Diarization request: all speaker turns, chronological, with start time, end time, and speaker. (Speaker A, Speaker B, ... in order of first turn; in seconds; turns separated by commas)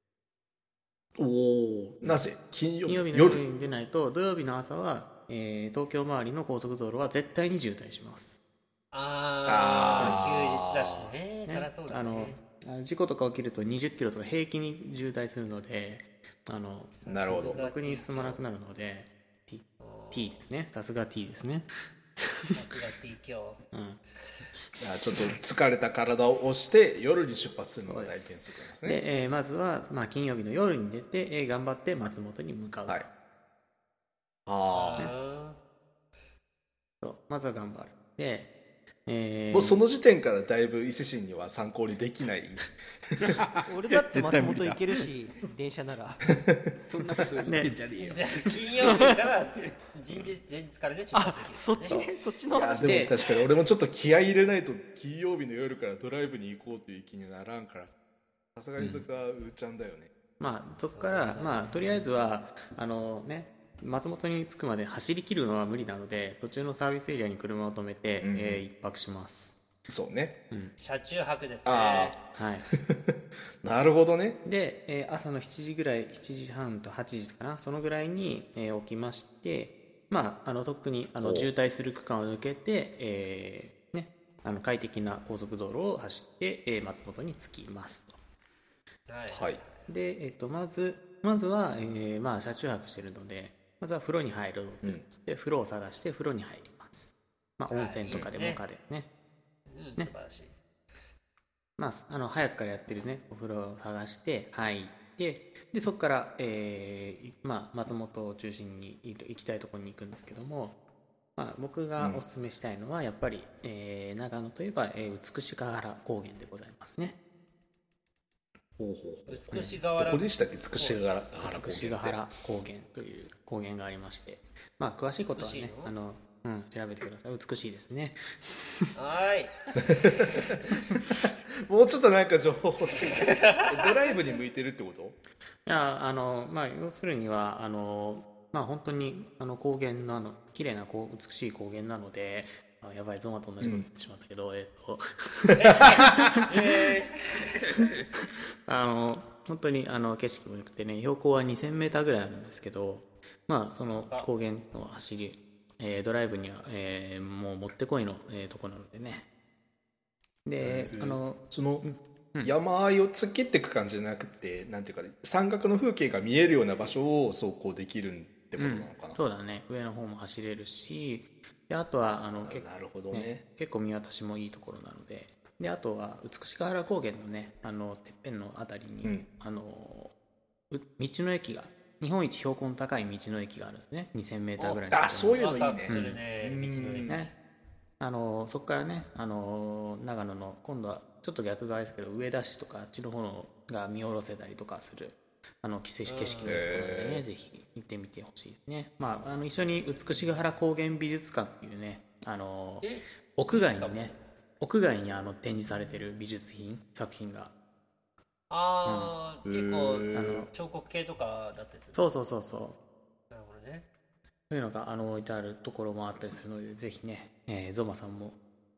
Speaker A: 1.2-3.4, Speaker B: 2.8-8.4, Speaker C: 8.9-12.4, Speaker A: 9.4-11.1, Speaker B: 10.0-10.3, Speaker B: 11.5-21.7, Speaker C: 17.0-18.4, Speaker A: 17.1-17.6, Speaker C: 19.8-20.4, Speaker C: 22.5-23.6, Speaker B: 23.7-24.0, Speaker A: 24.8-29.0, Speaker B: 27.9-33.1, Speaker A: 34.5-35.1, Speaker C: 34.7-35.6, Speaker B: 37.0-38.5, Speaker B: 39.0-39.8, Speaker A: 39.5-43.3, Speaker D: 43.2-44.8, Speaker E: 43.7-46.2, Speaker A: 46.3-46.8, Speaker D: 46.8-49.7, Speaker B: 47.4-47.8, Speaker C: 48.0-52.0, Speaker E: 51.1-53.1, Speaker A: 52.5-57.9, Speaker B: 52.8-53.1, Speaker A: 58.5-60.1, Speaker B: 58.8-59.0, Speaker B: 60.4-69.6, Speaker C: 60.9-62.1, Speaker A: 68.2-68.6, Speaker A: 69.9-70.4, Speaker C: 70.8-72.2, Speaker A: 71.6-73.1, Speaker B: 72.4-72.7, Speaker A: 73.6-74.4, Speaker B: 74.4-88.1, Speaker A: 81.2-81.5, Speaker C: 89.1-89.9, Speaker A: 89.3-89.6, Speaker B: 89.8-99.1, Speaker C: 97.7-98.6, Speaker C: 99.7-100.5, Speaker B: 101.8-110.8, Speaker B: 111.4-117.2, Speaker A: 118.8-122.2, Speaker C: 119.3-121.0, Speaker B: 121.4-128.2, Speaker C: 125.3-125.9, Speaker C: 128.9-129.5, Speaker A: 129.8-131.1, Speaker A: 131.7-135.2, Speaker C: 133.3-134.4, Speaker B: 135.7-146.7, Speaker C: 145.5-147.7, Speaker D: 147.7-148.0, Speaker B: 148.7-159.2, Speaker C: 153.9-154.3, Speaker B: 160.4-162.5, Speaker A: 160.6-161.8, Speaker A: 162.4-169.2, Speaker B: 168.6-180.1, Speaker A: 172.4-173.4, Speaker B: 180.7-186.2, Speaker A: 184.9-187.3, Speaker C: 185.3-187.2, Speaker B: 187.1-187.3, Speaker B: 188.0-207.5, Speaker C: 196.1-196.6, Speaker A: 196.4-197.2, Speaker C: 199.1-199.9, Speaker C: 202.8-204.3, Speaker C: 208.5-212.1, Speaker B: 208.8-209.1, Speaker A: 209.4-210.5, Speaker B: 210.1-210.5, Speaker B: 211.9-212.8, Speaker C: 213.3-213.8, Speaker B: 214.5-218.4